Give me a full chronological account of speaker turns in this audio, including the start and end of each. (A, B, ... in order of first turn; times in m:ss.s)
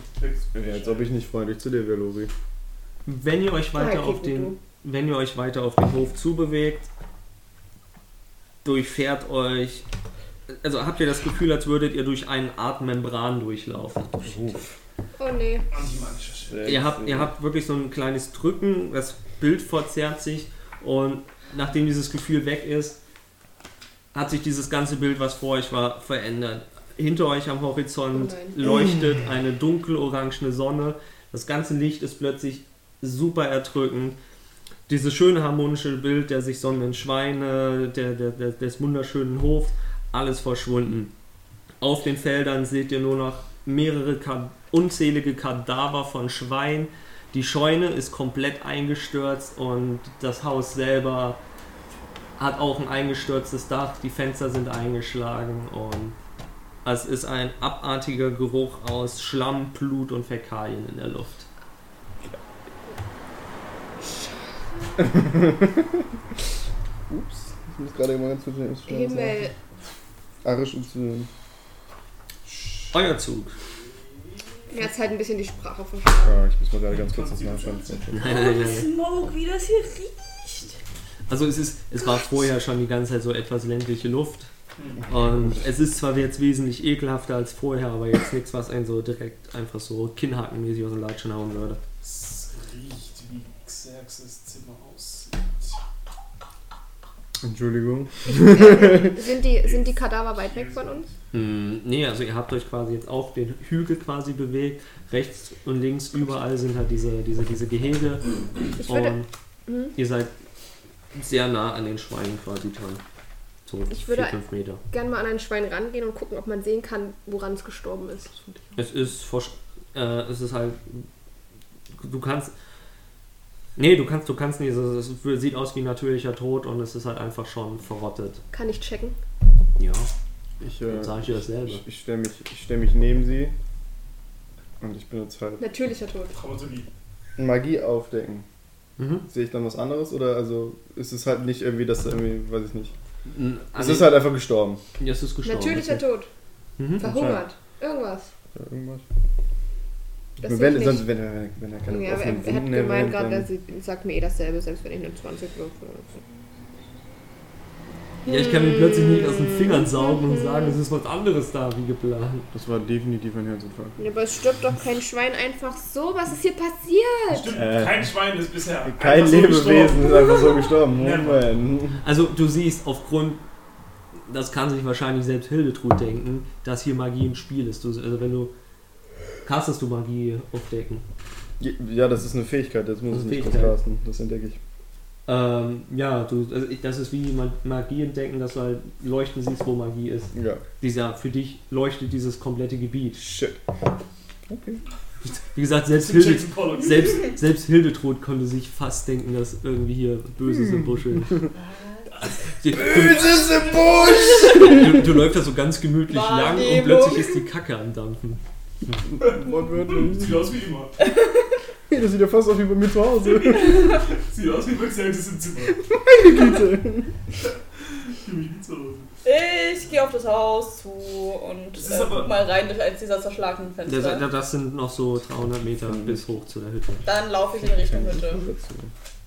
0:00.2-0:01.1 A
0:00.5-0:02.3 B
0:03.0-0:06.9 C
0:03.8-0:04.6 D
0:08.6-0:09.8 C
0:10.5-0:14.6 C
0:14.2-0:14.6 B
0:15.2-0:15.6 D
0:15.7-0:16.6 A
0:16.5-0:17.3 B
0:16.6-0:23.0 C
0:24.1-0:34.2 C
0:28.1-0:28.6 D
0:34.9-0:41.1 C
0:41.8-0:51.4 C
0:52.4-0:56.1 C
0:56.8-1:01.5 C
1:05.0-1:06.0 B
1:07.1-1:09.5 B
1:08.9-1:09.5 D
1:10.4-1:11.3 B
1:12.5-1:12.8 A
1:12.9-1:13.5 C
1:14.7-1:16.4 D
1:16.2-1:18.3 B
1:16.9-1:18.0 A
1:18.2-1:18.9 C
1:18.2-1:20.8 E
1:21.3-1:24.5 C
1:24.8-1:25.0 A
1:25.1-1:31.8 C
1:25.3-1:25.7 B
1:32.0-1:35.8 A
1:37.4-1:39.2 B
1:38.3-1:41.1 D
1:39.6-1:41.0 A
1:41.3-1:49.3 C
1:48.8-1:49.9 D
1:49.9-1:50.3 C
1:51.1-1:53.0 C
1:53.6-1:54.8 C
1:53.9-1:58.4 D
1:58.8-2:01.1 C
2:02.0-2:02.5 C
2:03.8-2:08.4 C
2:08.5-2:09.2 D
2:09.8-2:10.1 C
2:10.6-2:13.5 B
2:10.8-2:11.8 C
2:14.8-2:15.6 B
2:15.6-2:16.3 D
2:16.3-2:16.9 A
2:17.4-2:18.4 B
2:19.0-2:19.2 C
2:19.3-2:22.9 B
2:23.3-2:24.3 C
2:23.7-2:24.8 B
2:25.0-2:26.0 C
2:25.4-2:26.3 D
2:26.8-2:27.1 C
2:27.0-2:28.3 D
2:27.0-2:27.4 B
2:28.5-2:29.0 B
2:30.4-2:31.1 D
2:30.4-2:33.5 B
2:31.9-2:36.2 D
2:38.2-2:42.5 C
2:38.3-2:40.7 D
2:42.5-2:44.0 B
2:44.0-2:47.6 D
2:47.3-2:50.3 A
2:47.5-2:48.1 B
2:48.8-2:52.0 B
2:50.3-2:50.6 D
2:50.9-2:51.4 A
2:52.0-2:53.4 C
2:54.1-2:58.5 C
2:59.4-3:01.0 C
3:01.6-3:04.6 B
3:03.1-3:03.8 C
3:05.3-3:13.2 C
3:10.3-3:10.6 B
3:13.2-3:13.6 B
3:14.5-3:14.8 B
3:15.5-3:21.4 C
3:15.9-3:17.3 A
3:20.5-3:21.4 B
3:22.6-3:23.6 C
3:22.7-3:25.1 B
3:24.4-3:24.8 E
3:24.4-3:28.4 C
3:26.1-3:27.4 E
3:28.9-3:30.5 B
3:29.2-3:30.9 A
3:31.0-3:31.5 E
3:31.9-3:34.0 B
3:33.3-3:35.8 A
3:35.9-3:37.1 B
3:38.1-3:39.1 A
3:39.2-3:44.3 E
3:41.7-3:42.3 A
3:43.8-3:47.0 C
3:45.8-3:46.2 B
3:47.0-3:48.5 E
3:47.5-3:48.9 B